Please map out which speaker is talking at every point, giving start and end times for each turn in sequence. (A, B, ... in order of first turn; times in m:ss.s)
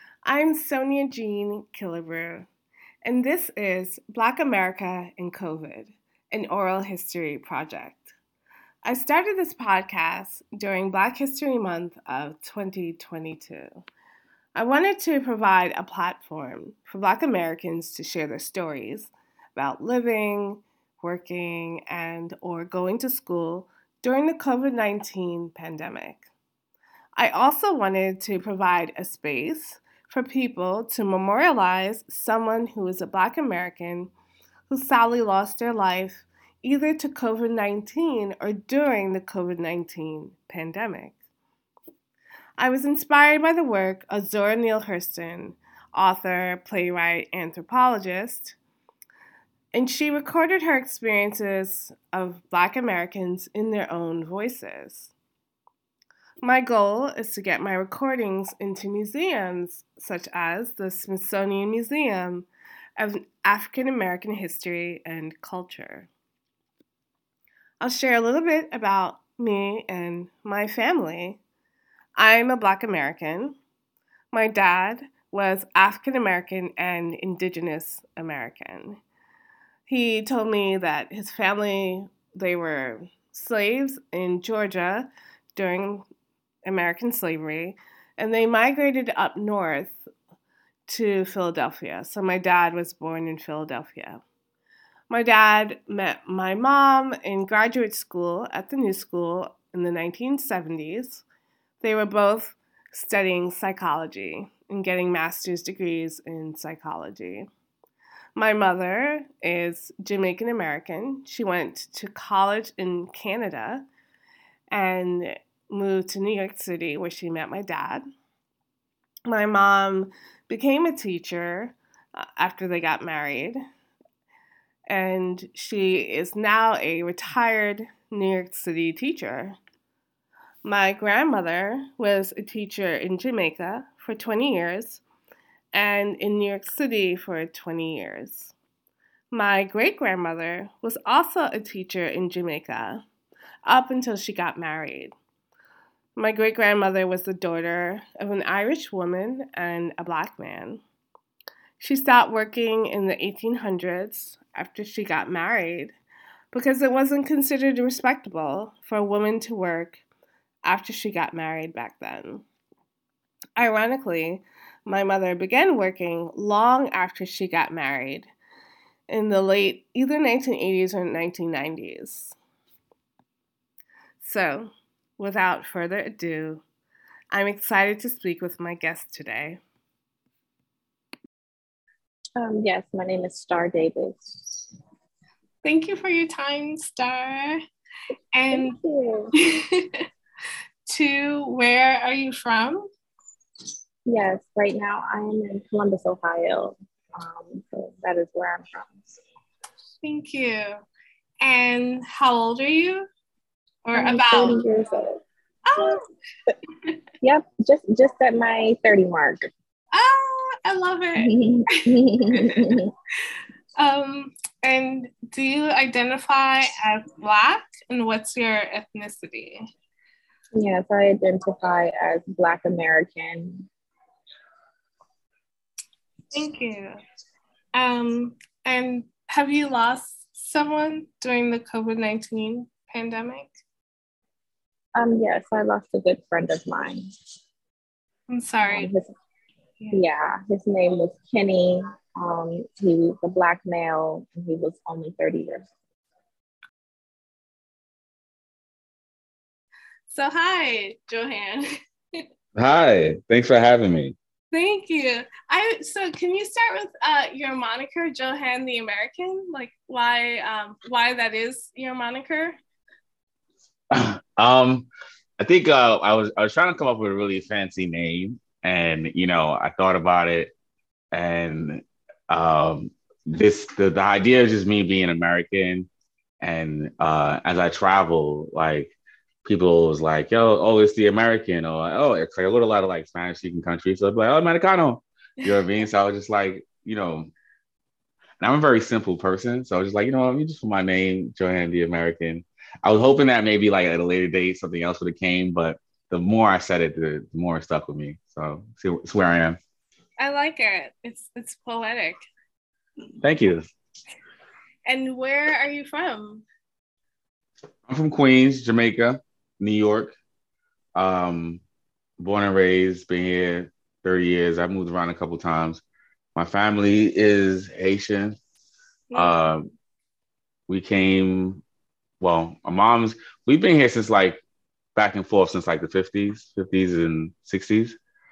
0:00.2-0:02.5 A
0:03.0-0:08.1 A
0:08.8-0:13.8 A
0:14.6-0:26.2 A
0:27.2-0:34.1 A
0:34.7-0:41.2 A
0:42.6-0:48.6 A
0:49.7-0:55.1 A
0:56.4-1:06.1 A
1:07.8-1:11.4 A
1:12.2-1:13.6 A
1:14.3-1:19.0 A
1:19.9-1:26.1 A
1:26.6-1:30.1 A
1:30.9-1:34.2 A
1:35.1-1:41.2 A
1:41.8-1:47.5 A
1:48.4-1:53.9 A
1:54.7-1:58.0 A
1:59.3-2:03.6 A
2:04.9-2:09.6 A
2:10.6-2:15.0 A
2:15.7-2:18.5 A
2:19.3-2:23.0 A
2:23.7-2:25.1 A
2:26.2-2:30.8 A
2:31.8-2:35.9 A
2:36.5-2:40.0 A
2:40.6-2:42.4 A
2:43.6-2:48.3 A
2:49.1-2:52.4 A
2:54.2-2:56.6 A
2:57.3-2:59.6 A
3:02.4-3:04.2 B
3:05.6-3:07.6 A
3:08.3-3:08.8 A
3:08.5-3:09.3 B
3:09.4-3:09.8 A
3:10.9-3:12.9 A
3:14.1-3:19.1 B
3:20.0-3:20.8 A
3:21.4-3:23.1 A
3:23.8-3:24.6 A
3:23.9-3:25.2 B
3:25.7-3:26.0 A
3:27.2-3:29.5 B
3:29.9-3:32.7 A
3:31.2-3:32.9 B
3:33.8-3:39.6 A
3:40.5-3:43.7 B
3:46.3-3:47.0 A
3:47.7-3:53.5 A
3:55.0-3:57.1 B
3:58.3-3:58.9 A
3:58.7-3:59.1 B
3:59.9-4:05.7 B
4:10.1-4:11.7 A
4:12.6-4:14.2 C
4:14.5-4:22.6 A
4:23.9-4:24.9 C
4:25.4-4:30.5 C
4:31.1-4:35.9 C
4:36.4-4:38.9 C
4:39.4-4:47.3 C
4:48.4-4:59.6 C
5:00.2-5:02.2 A
5:03.2-5:03.7 C
5:04.9-5:06.4 A
5:07.9-5:10.2 C
5:11.0-5:11.6 C
5:12.2-5:15.8 C
5:16.4-5:18.4 C
5:19.1-5:19.5 A
5:19.2-5:19.7 C
5:20.7-5:21.6 C
5:22.2-5:24.4 C
5:25.0-5:28.0 C